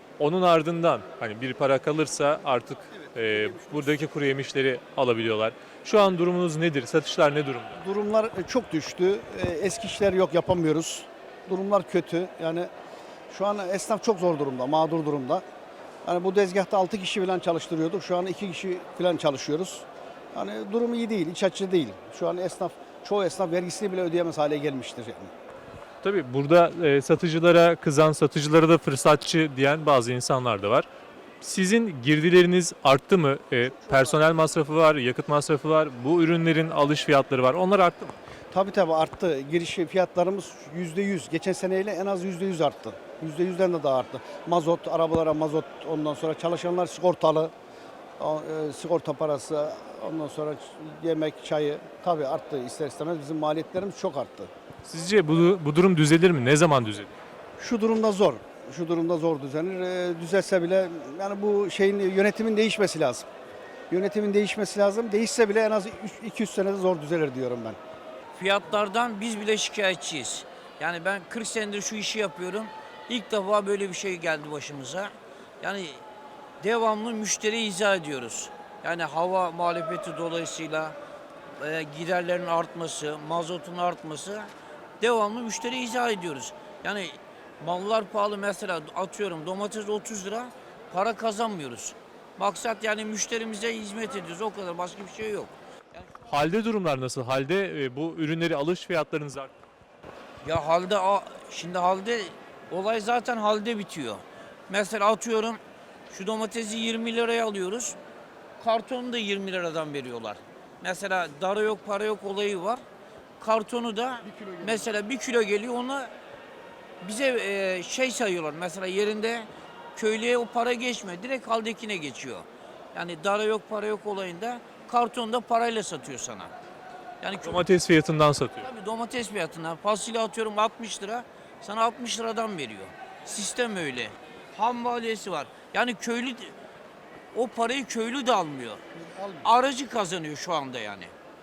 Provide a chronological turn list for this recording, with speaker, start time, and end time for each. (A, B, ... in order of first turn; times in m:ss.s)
0:00.2-0:07.8 A
0:07.8-0:12.7 B
0:13.3-0:15.4 B
0:16.0-0:25.3 B
0:26.0-0:30.9 A
0:31.4-0:38.2 A
0:38.5-0:47.5 B
0:48.2-0:54.5 B
0:54.8-0:57.1 A
0:57.6-1:03.3 B
1:03.9-1:07.8 B
1:08.3-1:16.0 C
1:16.6-1:20.9 C
1:21.6-1:36.1 C
1:36.3-1:39.5 A
1:40.4-1:45.6 C
1:46.1-1:48.0 C
1:48.6-1:52.8 C
1:53.4-1:56.1 C
1:57.0-2:06.5 C
2:07.2-2:07.6 C
2:07.4-2:08.7 A
2:08.6-2:16.5 C
2:17.3-2:18.8 C
2:19.4-2:21.1 C